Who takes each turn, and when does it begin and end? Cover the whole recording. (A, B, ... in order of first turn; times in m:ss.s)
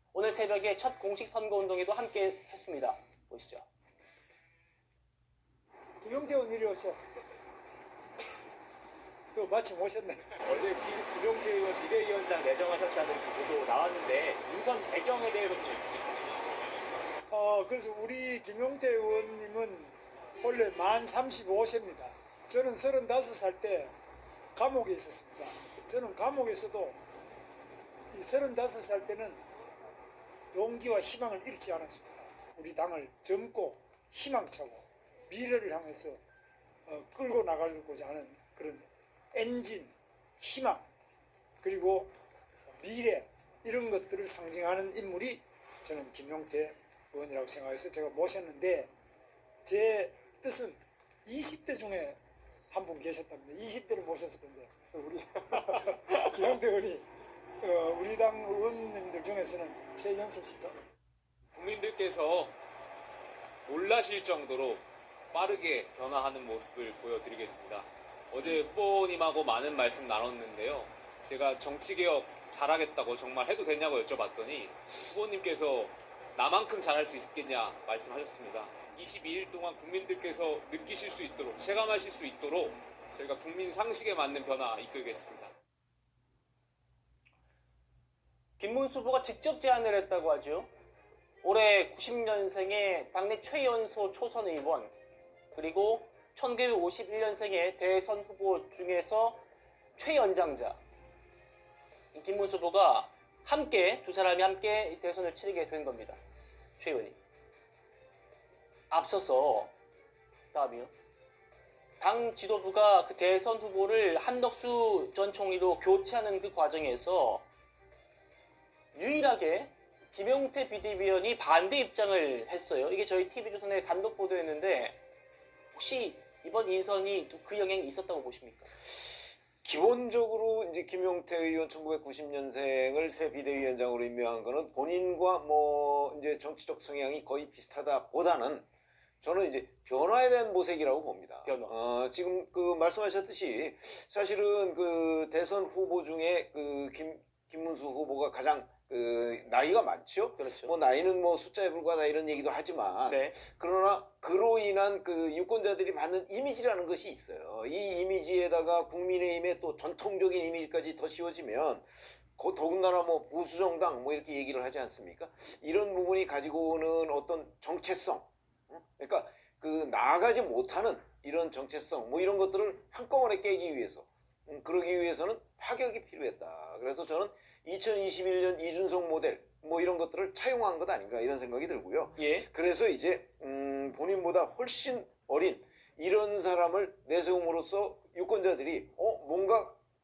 0:00.1-0:03.7 A
0:06.0-0:07.0 B
0:09.3-0:10.4 B
0:10.9-0:15.8 C
0:17.3-0:24.0 B
0:24.6-0:27.0 B
0:28.1-0:29.4 B
0:30.5-0:36.2 B
0:36.9-0:40.9 B
0:41.6-0:42.1 B
0:42.8-0:48.9 B
0:49.6-0:52.2 B
0:52.7-0:57.1 B
0:57.6-1:00.7 B
1:01.5-1:02.6 D
1:03.7-1:25.5 D
1:28.6-1:30.7 A
1:31.4-1:34.9 A
1:35.5-1:39.4 A
1:40.0-1:40.8 A
1:42.1-1:46.2 A
1:46.8-1:47.2 A
1:48.9-1:49.7 A
1:50.5-1:50.9 A
1:52.0-1:57.5 A
1:58.9-2:05.0 A
2:05.7-2:08.7 A
2:09.6-2:18.7 E
2:19.2-3:09.8 E
2:21.5-2:21.8 A
2:30.4-2:30.7 A
2:33.1-2:33.4 A
3:02.2-3:02.5 A